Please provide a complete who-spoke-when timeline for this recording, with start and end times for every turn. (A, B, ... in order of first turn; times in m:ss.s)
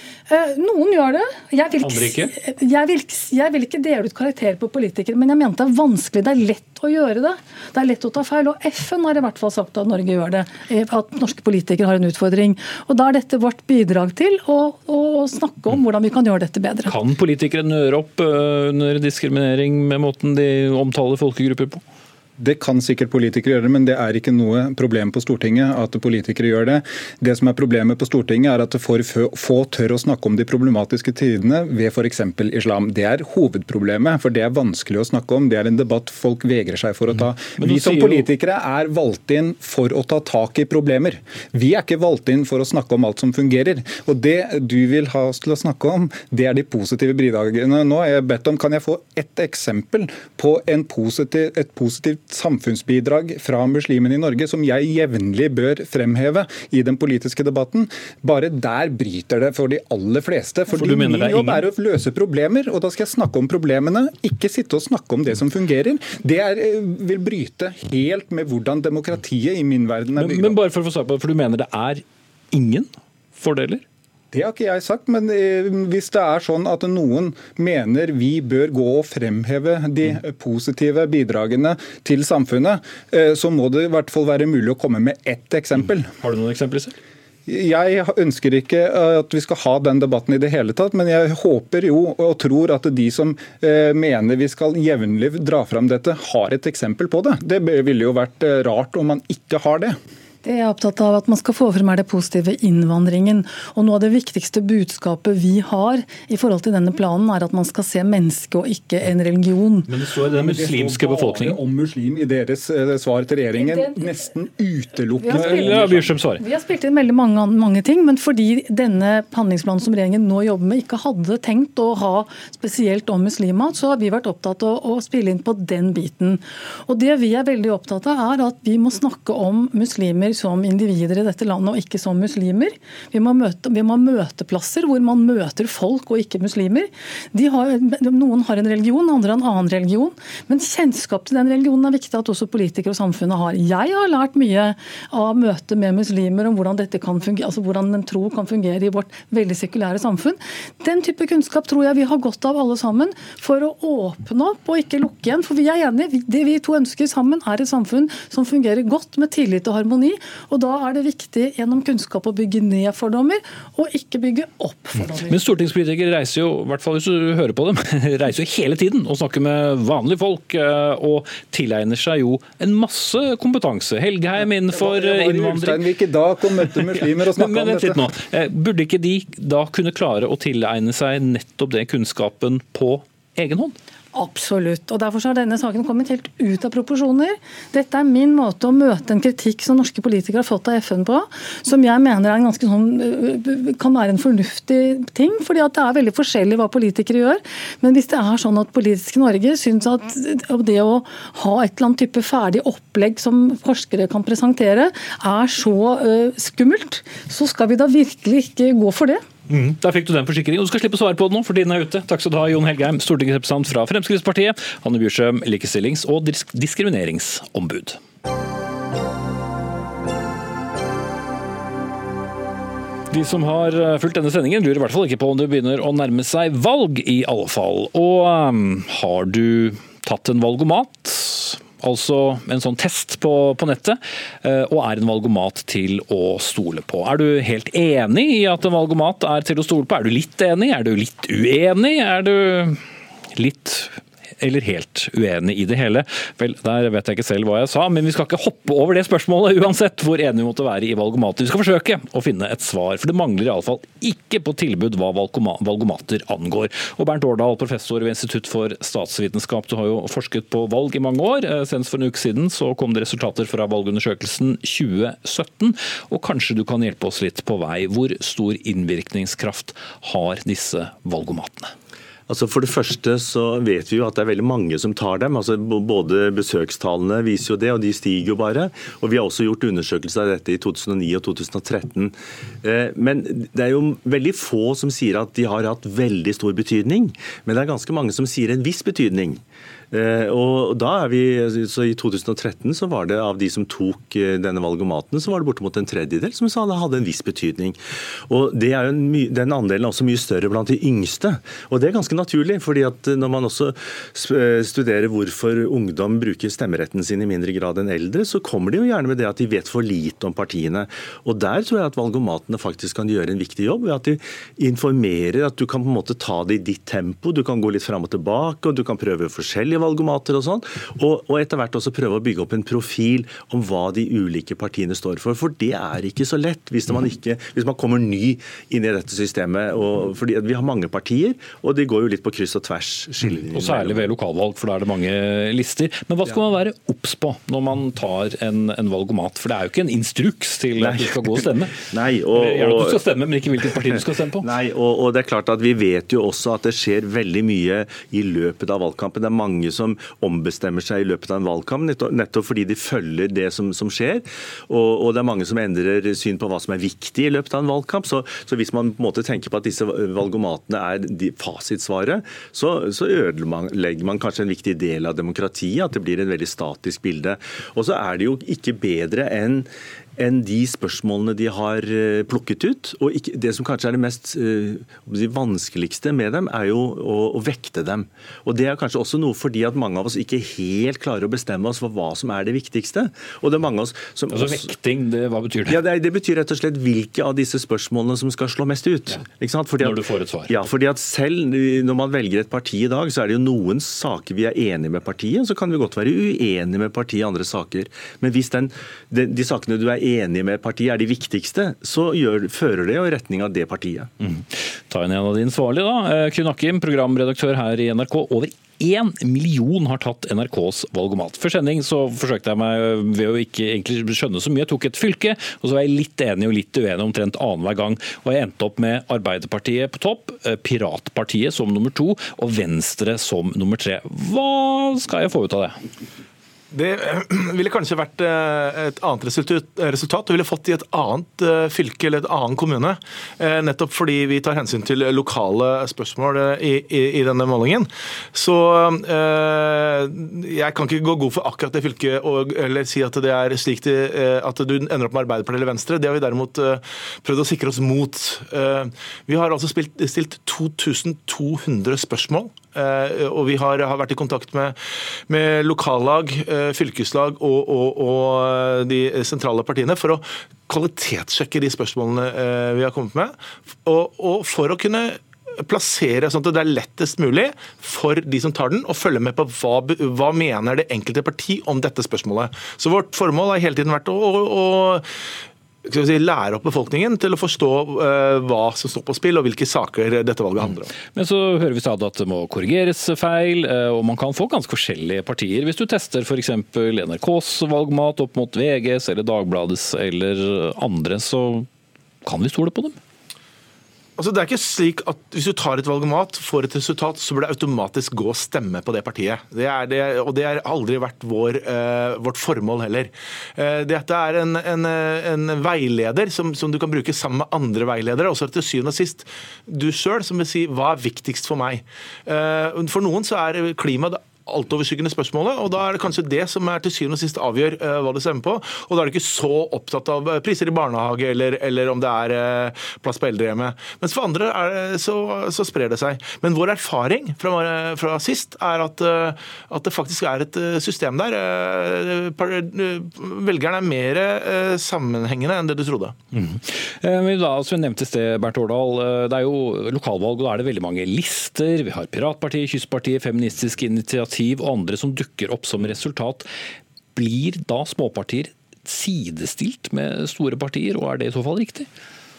0:00.3-0:17.0 A
0:01.8-0:02.3 B
0:16.9-0:21.8 B
0:22.4-1:10.6 C
0:37.2-0:38.3 B
1:00.7-1:01.7 B
1:10.2-1:13.8 B
1:14.3-1:26.1 C
1:25.8-1:26.9 B
1:27.5-1:40.0 C
1:40.4-1:49.9 A
1:49.9-1:51.6 B
1:50.2-1:56.1 C
1:53.6-1:54.0 A
1:55.2-2:45.5 A
1:55.3-1:56.4 B
2:45.3-2:55.9 B
2:54.7-2:58.0 C
2:56.9-3:03.8 B
3:04.1-3:29.2 A
3:29.5-3:38.0 B
3:43.1-4:02.8 B
4:03.4-4:31.7 B
4:32.3-4:49.4 D
4:49.9-4:57.8 D
4:58.3-5:34.1 D
5:33.5-5:44.5 B
5:40.8-5:43.0 D
5:44.4-6:24.7 D
6:24.3-6:25.8 B
6:25.7-6:44.1 D
6:29.8-6:30.5 B
6:44.2-7:05.8 B
7:06.7-7:34.8 E
7:35.3-7:55.0 E
7:55.8-8:00.9 E
8:01.1-8:11.7 B
8:12.2-8:13.0 B
8:14.2-8:56.2 E
8:56.3-9:06.5 B
9:07.2-9:11.9 B